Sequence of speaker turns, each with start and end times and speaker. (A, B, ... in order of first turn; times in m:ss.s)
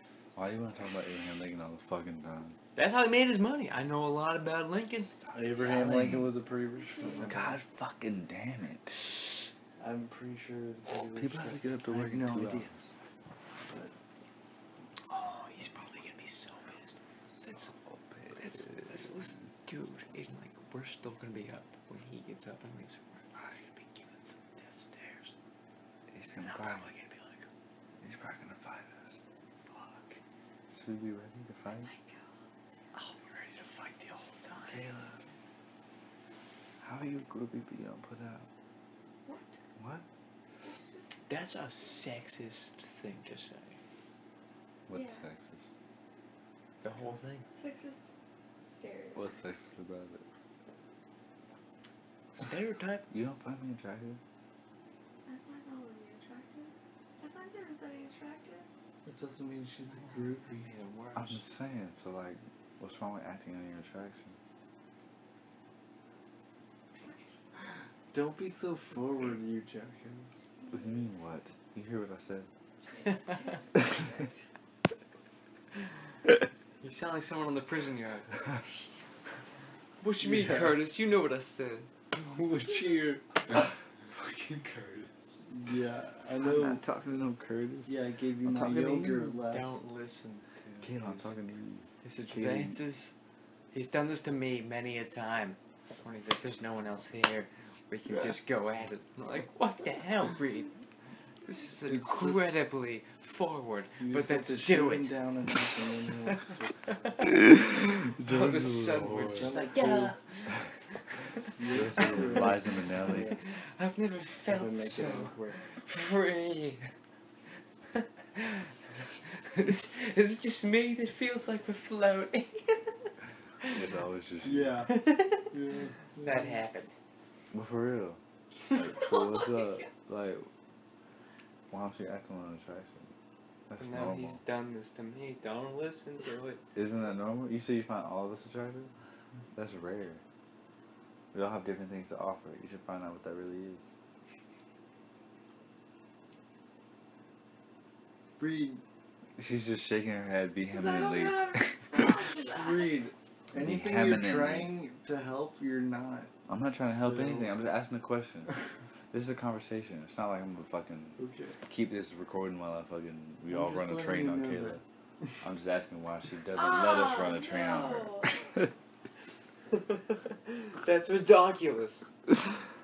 0:00.4-0:02.6 A
0:02.8-0:05.1 B
0:05.2-0:07.6 C
0:05.6-0:06.3 A
0:07.2-0:09.2 A
0:09.8-0:12.7 C
0:11.1-0:12.9 A
0:13.6-0:13.9 C
0:15.1-0:17.7 B
0:17.4-0:19.4 A
0:18.3-0:25.3 B
0:26.1-0:26.9 A
0:26.3-0:27.5 B
0:28.0-0:29.2 A
0:29.7-0:30.2 B
0:30.7-0:31.9 A
0:31.7-0:32.9 D
0:32.9-0:34.9 B
0:34.7-0:35.2 A
0:36.8-0:38.5 A
0:39.2-0:39.6 D
0:39.8-0:40.0 A
0:40.6-0:41.2 D
0:41.3-0:43.8 B
0:44.9-0:45.7 A
0:44.9-0:45.2 D
0:46.8-0:47.5 B
0:47.5-0:48.1 D
0:48.6-0:49.4 D
0:49.1-0:50.2 A
0:52.4-0:53.0 B
0:53.1-0:54.2 A
0:55.3-0:58.7 D
0:59.0-1:00.7 C
1:00.4-1:01.4 B
1:01.1-1:04.4 A
1:07.0-1:07.3 D
1:08.1-1:10.3 C
1:10.6-1:11.1 D
1:10.7-1:12.5 A
1:12.8-1:14.4 D
1:13.1-1:13.4 B
1:16.8-1:18.4 B
1:20.0-1:21.9 B
1:20.2-1:20.8 C
1:22.2-1:23.6 C
1:23.5-1:25.1 B
1:25.5-1:26.8 C
1:26.4-1:29.1 A
1:27.9-1:29.8 C
1:28.7-1:31.3 B
1:30.8-1:32.8 A
1:32.0-1:33.1 B
1:33.7-1:40.7 B
1:41.4-1:45.2 B
1:41.8-1:42.6 C
1:44.0-1:47.1 C
1:46.3-1:47.4 B
1:47.2-1:49.5 A
1:48.2-1:51.2 B
1:49.3-1:50.2 C
1:51.6-1:53.4 C
1:51.7-1:53.3 A
1:52.0-1:52.5 B
1:53.1-1:56.9 B
1:54.5-1:55.6 C
1:57.9-2:02.9 B
2:03.6-2:04.8 A
2:04.4-2:05.0 C
2:04.9-2:05.5 B
2:05.5-2:06.6 C
2:06.1-2:06.9 B
2:07.5-2:08.2 A
2:08.7-2:10.5 A
2:08.9-2:09.9 D
2:11.7-2:13.1 A
2:13.7-2:14.4 A
2:13.8-2:16.6 B
2:16.7-2:18.9 A
2:19.5-2:20.2 A
2:21.3-2:23.8 A
2:28.4-2:28.8 C
2:29.4-2:32.3 A
2:30.7-2:33.0 D
2:32.5-2:36.3 C
2:33.5-2:34.7 A
2:36.5-2:38.5 A
2:36.8-2:37.5 C
2:39.1-2:44.8 A
2:41.2-2:41.6 C
2:43.5-2:44.8 C
2:45.4-2:48.7 A
2:46.5-2:48.4 D
2:49.7-2:52.0 B